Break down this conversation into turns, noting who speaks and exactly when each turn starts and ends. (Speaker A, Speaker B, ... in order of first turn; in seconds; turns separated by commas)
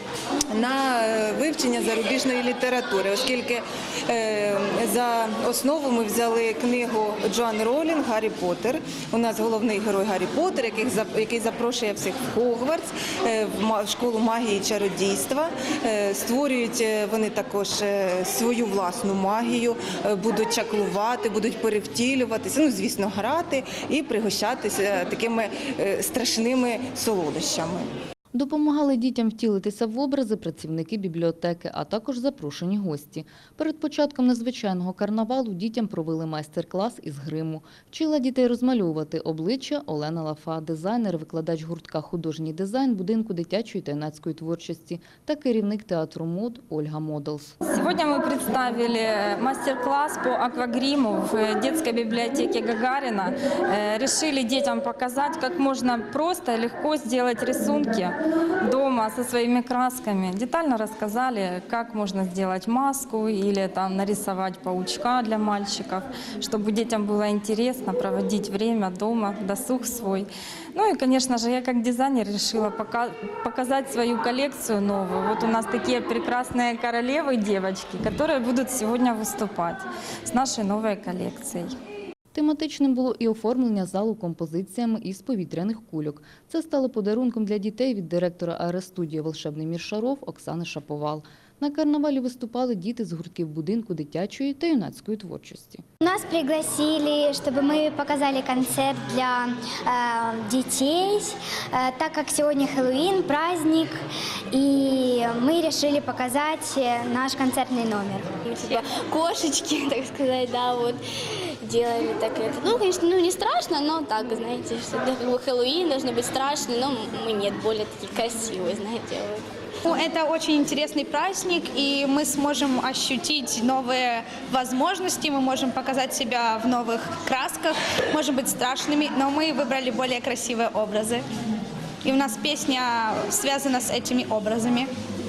Speaker A: 0.5-27.9, Speaker B: 28.3-47.5, Speaker C: 47.6-81.8, Speaker B: 82.3-95.8, Speaker D: 96.0-103.9, Speaker D: 104.5-108.2, Speaker E: 108.5-111.0, Speaker E: 111.6-119.5, Speaker F: 119.8-131.2, Speaker F: 132.0-134.9